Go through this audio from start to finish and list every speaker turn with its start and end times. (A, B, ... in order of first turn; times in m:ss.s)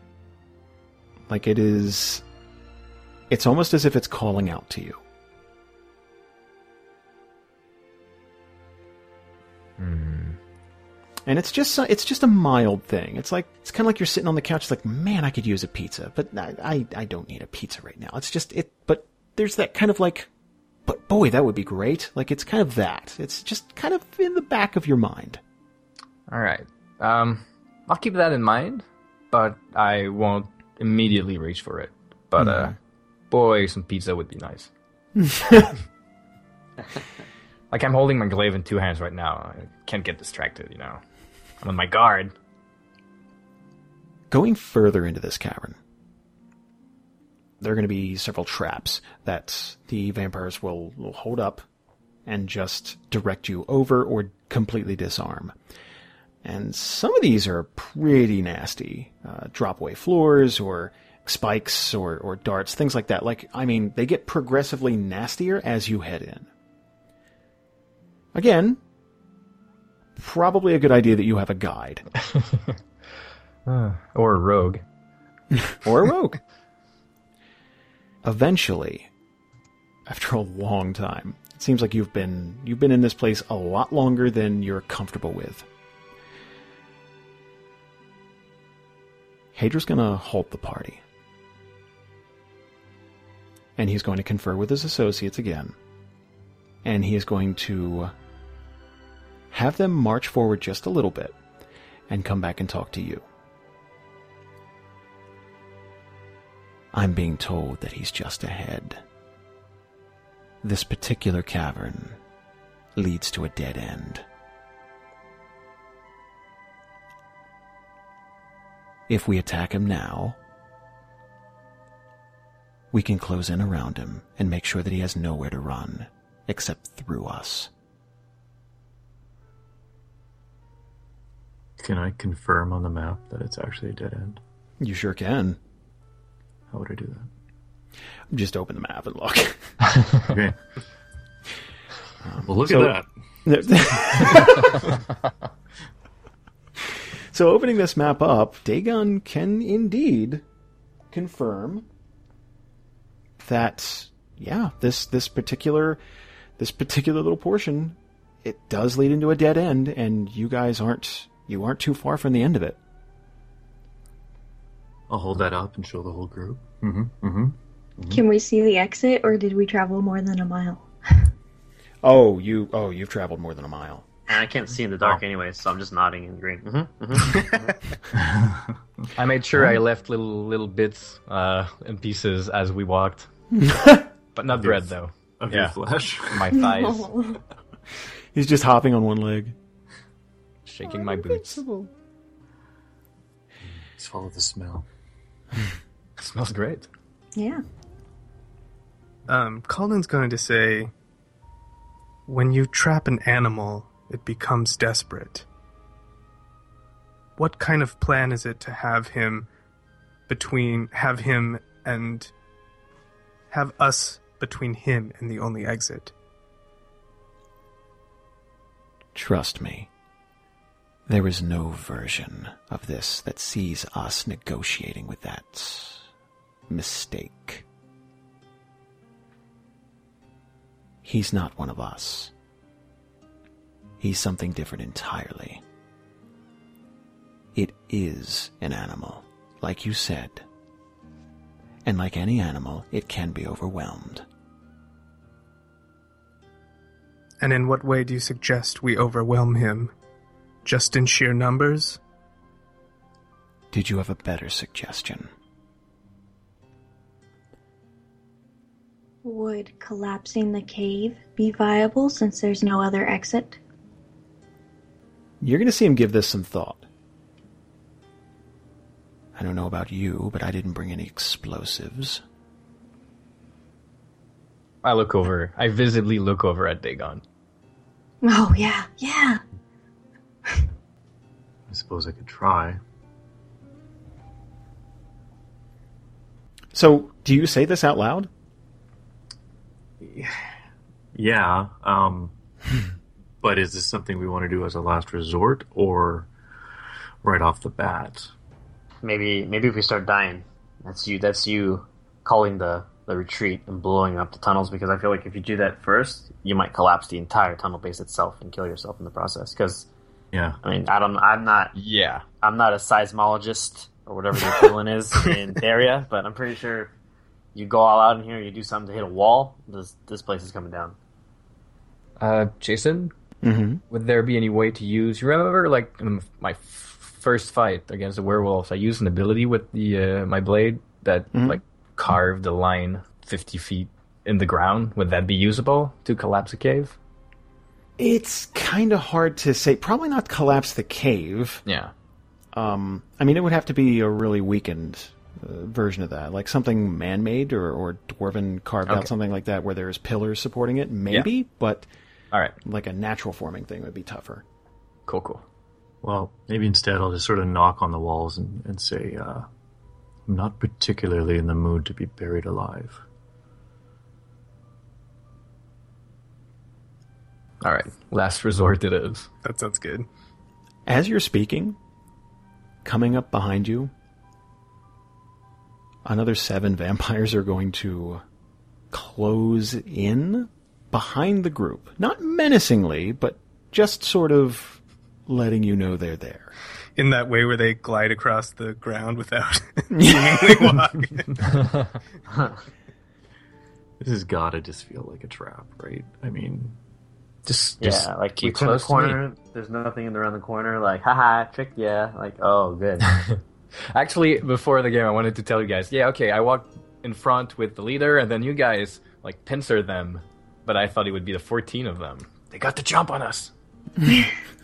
0:01.3-0:02.2 A
0:03.3-0:05.0 A
0:09.8-0:10.4 B
0:11.2-0:20.3 A
0:20.8-0:25.4 A
0:26.3-0:32.8 B
0:32.4-0:32.7 A
0:33.3-0:34.7 B
0:35.2-0:35.7 A
0:37.7-0:41.0 B
0:41.6-0:42.3 B
0:44.3-0:45.8 A
0:47.6-0:51.6 A
0:52.2-0:55.5 A
0:56.4-1:06.5 A
1:08.3-1:08.8 A
1:10.2-1:12.0 A
1:12.3-1:12.7 B
1:13.6-1:14.8 B
1:15.6-1:16.4 A
1:18.2-1:19.1 A
1:20.0-1:25.7 A
1:29.5-1:31.0 A
1:33.8-1:35.7 A
1:36.8-1:38.1 A
1:39.5-1:41.4 A
1:42.1-1:43.2 A
1:46.9-1:49.0 A
1:50.6-1:52.2 A
1:52.9-1:54.2 A
1:59.1-2:00.4 A
2:02.9-2:07.7 A
2:11.8-2:14.4 C
2:14.8-2:15.6 A
2:16.7-2:17.3 C
2:18.3-2:19.6 A
2:20.3-2:20.6 C
2:22.2-2:24.8 A
2:22.4-2:23.1 C
2:27.3-2:30.4 A
2:31.1-2:31.9 A
2:33.4-2:36.0 A
2:36.6-2:42.8 A
2:45.1-2:48.2 C
2:48.1-2:51.2 D
2:52.0-2:54.0 A
2:54.3-2:57.8 E
2:58.2-2:58.7 C
2:59.2-3:03.3 B
3:03.5-3:04.1 A
3:04.3-3:05.8 B
3:04.5-3:06.6 C
3:06.3-3:07.1 B
3:06.6-3:07.4 D
3:08.3-3:09.5 A
3:10.6-3:11.6 B
3:10.8-3:11.9 A
3:13.7-3:14.8 C
3:16.2-3:16.9 B
3:17.4-3:17.6 D
3:19.3-3:20.9 F
3:22.3-3:25.4 F
3:27.4-3:29.5 F
3:30.3-3:32.3 F
3:33.5-3:36.1 F
3:39.1-3:39.9 A
3:41.1-3:46.0 A
3:46.7-3:47.6 A
3:51.0-3:52.3 A
3:54.0-3:55.6 A
3:57.5-4:00.4 A
4:01.8-4:04.2 A
4:07.4-4:09.9 F
4:10.6-4:12.0 F
4:13.7-4:15.3 A
4:19.2-4:23.6 D
4:25.4-4:26.8 A
4:29.3-4:32.2 A
4:34.8-4:37.2 B
4:38.2-4:39.4 D
4:41.7-4:42.8 C
4:46.7-4:48.3 A
4:50.0-4:50.4 C
4:51.1-4:52.3 C
4:53.4-4:56.3 C
4:57.2-4:58.3 C
4:59.0-5:09.9 E
5:10.3-5:10.6 C
5:10.6-5:11.7 E
5:11.7-5:12.2 B
5:12.4-5:16.9 E
5:17.5-5:21.0 E
5:22.2-5:23.1 B
5:23.4-5:23.8 A
5:23.9-5:37.0 B
5:31.3-5:31.6 A
5:38.0-5:41.6 A
5:41.6-5:41.9 B
5:42.5-5:51.9 A
5:52.6-5:54.4 A
5:55.1-5:55.4 B
5:56.0-5:59.5 C
6:00.2-6:03.0 C
6:07.6-6:09.3 B
6:09.4-6:10.1 F
6:10.8-6:11.8 A
6:12.8-6:13.9 A
6:16.0-6:18.2 A
6:18.9-6:26.5 A
6:27.0-6:31.5 F
6:29.9-6:30.8 A
6:34.0-6:36.8 C
6:37.4-6:39.2 B
6:37.8-6:43.2 E
6:43.0-6:43.4 B
6:43.9-6:53.5 B